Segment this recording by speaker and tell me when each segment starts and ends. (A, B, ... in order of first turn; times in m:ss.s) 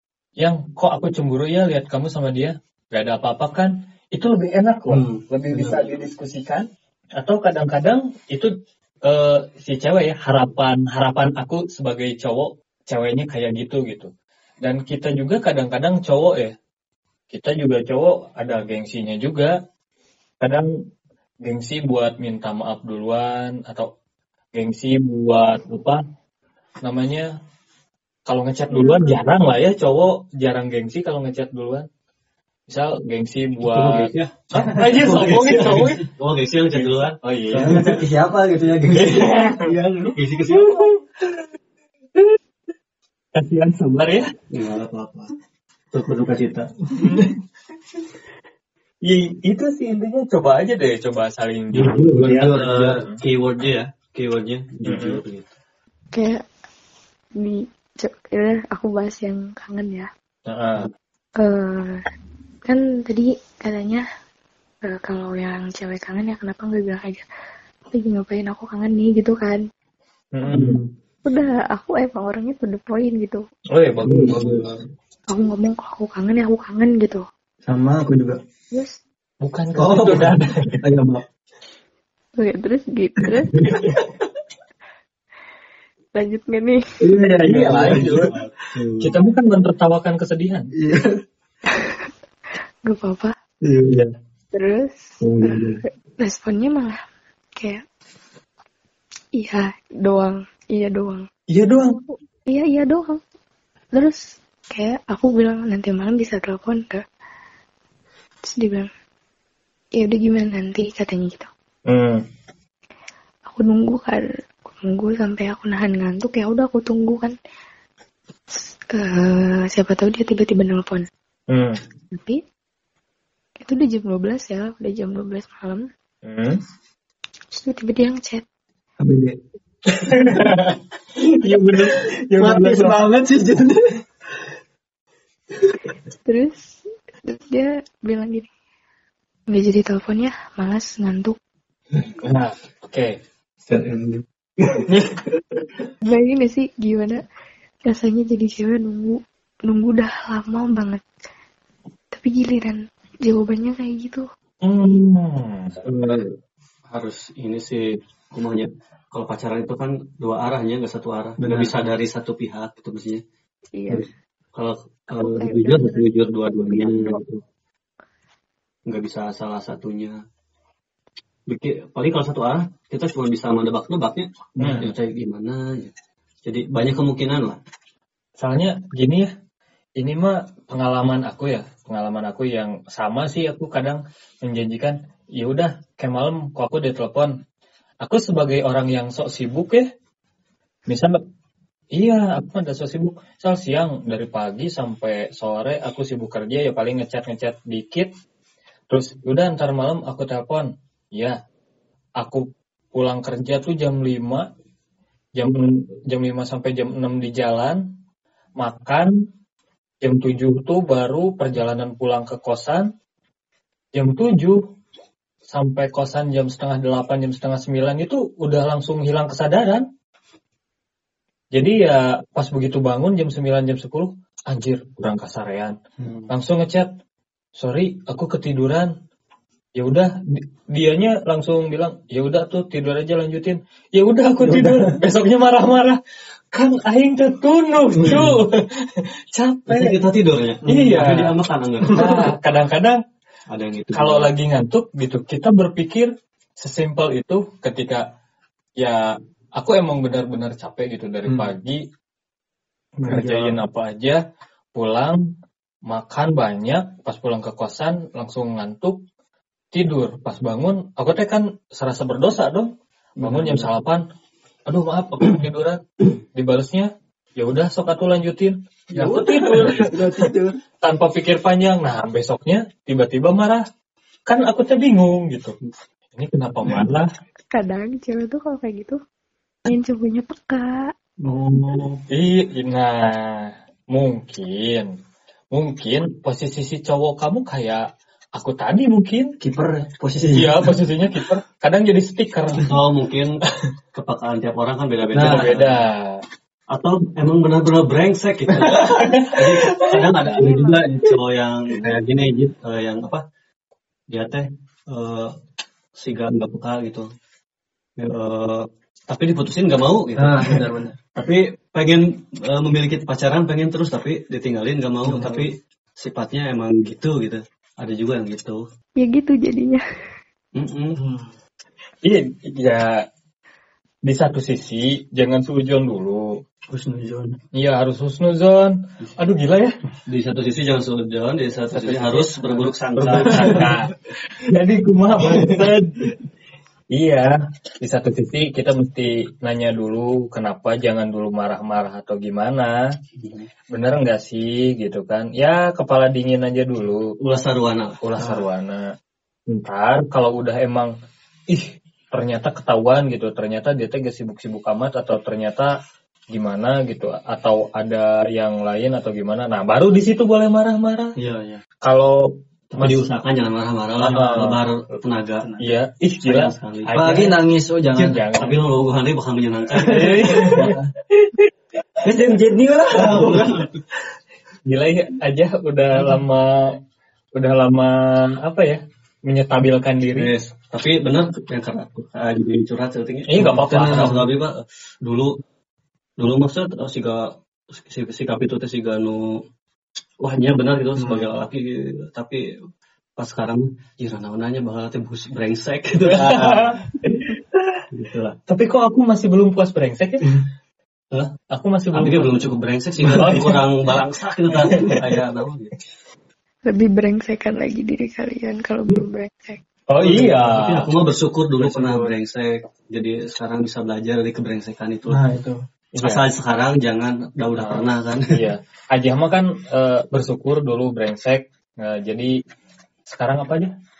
0:00.4-0:06.6 A
0:04.9-0:05.8 B
0:07.2-0:08.5 A
0:09.0-0:14.1 A
0:14.6-0:16.5 A
0:17.3-0:19.5 A
0:21.4-0:23.9 A
0:24.5-0:26.0 A
0:26.8-0:27.3 A
0:28.2-0:31.8 A
0:28.7-0:29.2 C
0:32.7-0:36.1 A
0:33.6-0:37.2 B
0:34.6-0:34.8 D
0:36.8-0:38.0 A
0:37.5-0:40.2 D
0:38.9-0:39.7 A
0:40.1-0:40.9 B
0:43.4-0:44.3 A
0:44.5-0:45.3 B
0:45.9-0:46.7 B
0:47.0-0:47.3 D
0:47.0-0:47.3 A
0:49.0-0:53.2 A
0:51.8-0:55.4 B
0:51.8-0:52.9 D
0:54.8-0:55.2 A
0:56.1-0:56.4 C
0:57.4-1:00.1 C
1:00.5-1:00.9 A
1:01.4-1:02.0 C
1:02.7-1:04.0 C
1:04.8-1:07.2 C
1:07.9-1:09.6 C
1:10.3-1:10.8 A
1:10.5-1:10.9 D
1:11.2-1:13.4 C
1:13.7-1:14.7 A
1:14.0-1:14.6 D
1:14.1-1:14.6 B
1:15.3-1:17.2 C
1:17.6-1:18.4 D
1:18.7-1:19.0 C
1:19.4-1:20.7 A
1:19.8-1:21.2 D
1:22.4-1:23.5 C
1:23.4-1:24.0 D
1:26.1-1:26.8 C
1:27.1-1:28.3 A
1:27.1-1:28.8 D
1:27.4-1:29.1 B
1:29.0-1:30.7 A
1:30.7-1:31.2 D
1:32.8-1:33.3 C
1:33.6-1:34.0 D
1:34.5-1:37.0 C
1:35.2-1:35.8 B
1:37.6-1:37.8 C
1:39.3-1:43.2 C
1:41.5-1:42.0 A
1:43.9-1:47.0 C
1:48.4-1:48.9 C
1:50.0-1:51.5 C
1:51.9-1:52.2 A
1:53.5-1:57.3 C
1:58.9-2:01.0 C
2:01.5-2:01.8 A
2:02.1-2:02.4 C
2:03.6-2:05.8 C
2:06.2-2:06.6 A
2:07.5-2:08.4 C
2:09.0-2:10.6 D
2:10.2-2:10.8 A
2:11.2-2:13.9 D
2:11.4-2:13.0 A
2:16.2-2:18.5 C
2:19.5-2:21.4 C
2:22.2-2:23.2 A
2:23.7-2:24.9 B
2:26.0-2:27.2 C
2:27.8-2:31.0 C
2:32.1-2:34.2 C
2:34.6-2:36.2 A
2:36.9-2:43.2 B
2:41.4-2:41.7 D
2:43.8-2:44.1 C
2:43.9-2:47.4 B
2:45.1-2:47.2 C
2:48.9-2:50.2 B
2:51.5-2:55.9 B
2:54.6-2:54.9 A
2:56.4-2:57.6 B
2:58.4-2:59.3 A
3:00.0-3:07.3 A
3:08.0-3:09.8 A
3:10.9-3:11.1 A
3:11.9-3:18.1 A
3:18.9-3:21.4 A
3:22.9-3:24.5 A
3:25.4-3:27.8 A
3:28.6-3:29.1 A
3:30.0-3:32.9 A
3:33.9-3:34.6 A
3:35.5-3:39.8 A
3:41.5-3:45.8 A
3:46.0-3:46.3 D
3:46.3-3:46.9 A
3:47.6-3:48.9 A
3:49.8-3:56.0 A
3:54.4-3:54.9 D
3:56.5-4:00.0 A
3:58.0-3:58.3 B
3:59.7-4:02.3 B
4:00.6-4:01.3 A
4:01.8-4:02.2 D
4:01.9-4:03.0 A
4:03.5-4:04.3 B
4:03.9-4:08.0 A
4:08.8-4:11.8 A
4:11.2-4:11.5 D
4:13.0-4:13.6 D
4:13.0-4:14.2 A
4:14.7-4:15.2 A
4:15.9-4:19.0 A
4:19.7-4:24.0 A
4:23.2-4:23.6 D
4:24.7-4:25.8 A
4:26.3-4:30.2 A
4:28.9-4:30.6 D
4:30.8-4:33.6 A
4:34.2-4:35.6 A
4:36.1-4:37.1 A
4:37.5-4:39.0 C
4:39.6-4:40.9 C
4:41.2-4:41.9 D
4:42.1-4:44.9 A
4:45.5-4:47.8 A
4:48.3-4:49.3 A
4:49.4-4:50.8 D
4:50.2-4:52.8 A
4:52.6-4:53.4 B
4:53.9-4:55.8 B
4:55.1-4:56.2 A
4:56.7-5:03.2 B
4:58.7-5:00.7 D
4:58.9-5:00.0 A
5:04.1-5:05.3 B
5:06.0-5:07.1 B
5:08.0-5:18.6 B
5:10.2-5:11.0 D
5:15.0-5:15.5 D
5:19.0-5:19.8 C
5:20.5-5:21.0 B
5:21.0-5:21.3 D
5:22.0-5:23.0 A
5:24.0-5:26.4 A
5:26.7-5:27.4 D
5:27.6-5:29.7 A
5:30.1-5:33.7 B
5:31.7-5:33.9 A
5:33.4-5:33.7 D
5:34.4-5:36.1 A
5:36.9-5:42.8 A
5:43.2-5:43.4 B
5:43.7-5:47.1 A
5:47.2-5:48.4 B
5:48.0-5:48.8 A
5:49.5-5:50.9 A
5:51.5-5:55.7 A
5:56.3-6:01.1 A
6:01.2-6:01.6 B
6:01.8-6:02.2 A
6:02.7-6:05.5 B
6:02.8-6:03.0 A
6:04.0-6:04.6 A
6:05.6-6:07.4 A
6:06.2-6:07.1 B
6:06.9-6:08.3 D
6:07.9-6:08.6 A
6:08.3-6:10.8 B
6:09.8-6:10.8 A
6:09.8-6:10.8 D
6:12.0-6:13.6 D
6:12.9-6:13.7 B
6:14.6-6:16.8 A
6:15.9-6:16.2 D
6:17.4-6:20.3 A
6:20.1-6:25.4 B
6:23.3-6:24.2 A
6:23.6-6:24.2 D
6:26.2-6:29.4 B
6:30.2-6:32.4 B
6:31.0-6:31.2 D
6:33.2-6:36.8 B
6:36.1-6:37.8 A
6:37.9-6:38.4 B
6:38.5-6:40.3 A
6:41.5-6:42.3 A
6:41.9-6:45.7 B
6:43.1-6:43.6 A
6:44.6-6:44.9 A
6:46.7-6:49.6 C
6:49.9-6:50.9 A
6:50.0-6:55.2 B
6:51.6-6:52.1 D
6:55.1-6:55.6 D
6:56.0-6:56.2 A
6:56.0-6:58.3 B
6:57.6-7:02.4 A
7:03.1-7:03.7 A